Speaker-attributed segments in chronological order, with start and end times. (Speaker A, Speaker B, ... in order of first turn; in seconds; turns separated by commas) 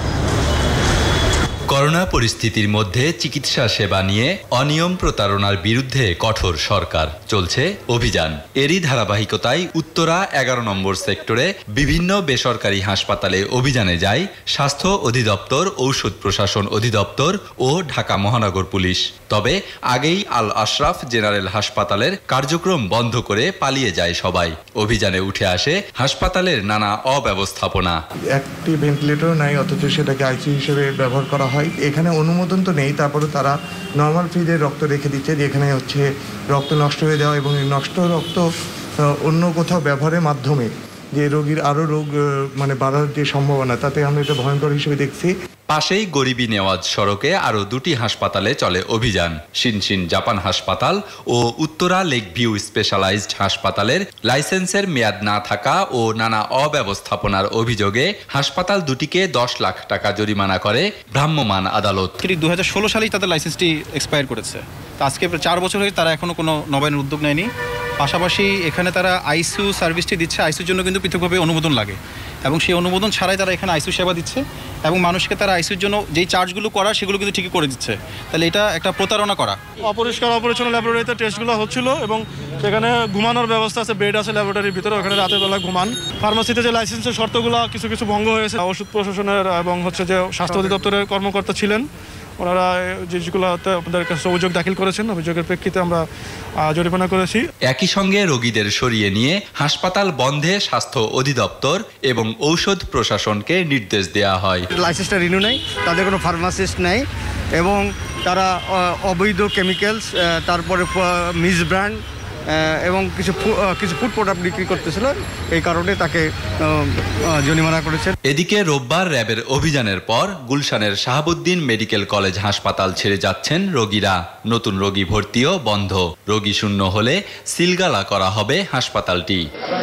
Speaker A: 1.7-28.0, Speaker B: 28.4-38.5, Speaker B: 39.0-45.3, Speaker A: 45.7-62.1, Speaker C: 62.2-67.5, Speaker C: 68.0-79.6, Speaker D: 79.8-91.8, Speaker E: 90.5-90.8, Speaker D: 92.4-96.0, Speaker D: 96.6-97.5, Speaker A: 97.7-104.7, Speaker E: 104.7-107.1, Speaker E: 107.6-118.1, Speaker A: 118.3-129.4